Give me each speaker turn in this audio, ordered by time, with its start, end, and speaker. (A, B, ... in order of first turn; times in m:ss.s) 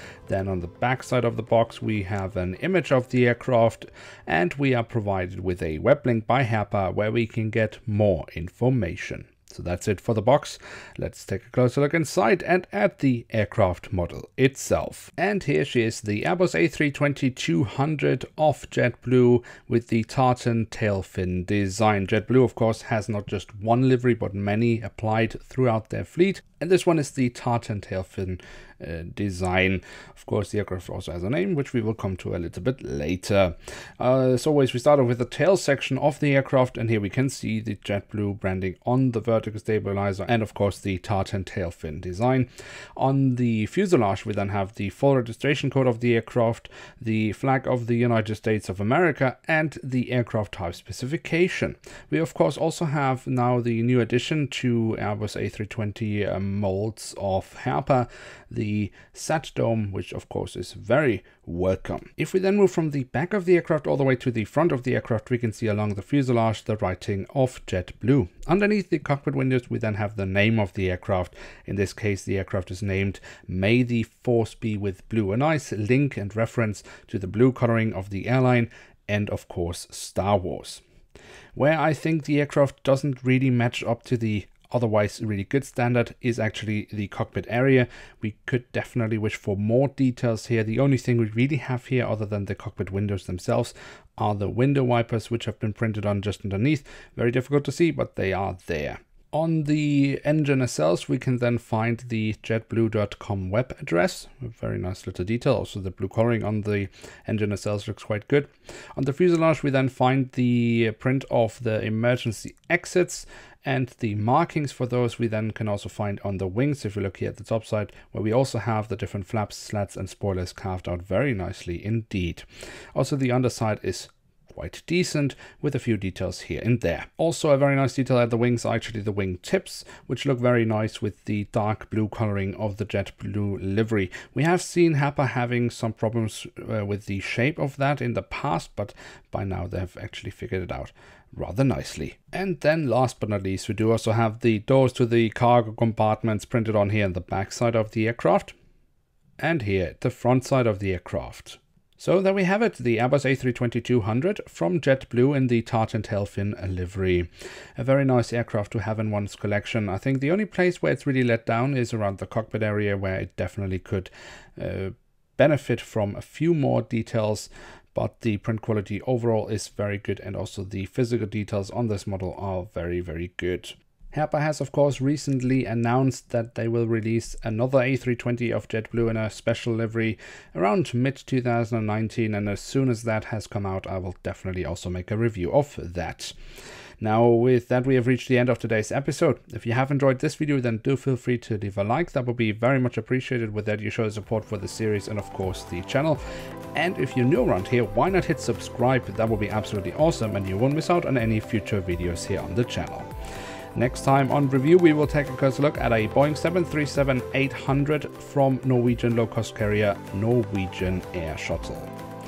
0:00.3-1:20.8 A
1:21.6-2:28.5 A
2:29.4-3:06.3 A
3:07.0-3:16.2 A
3:16.7-3:23.1 A
3:23.8-3:31.9 A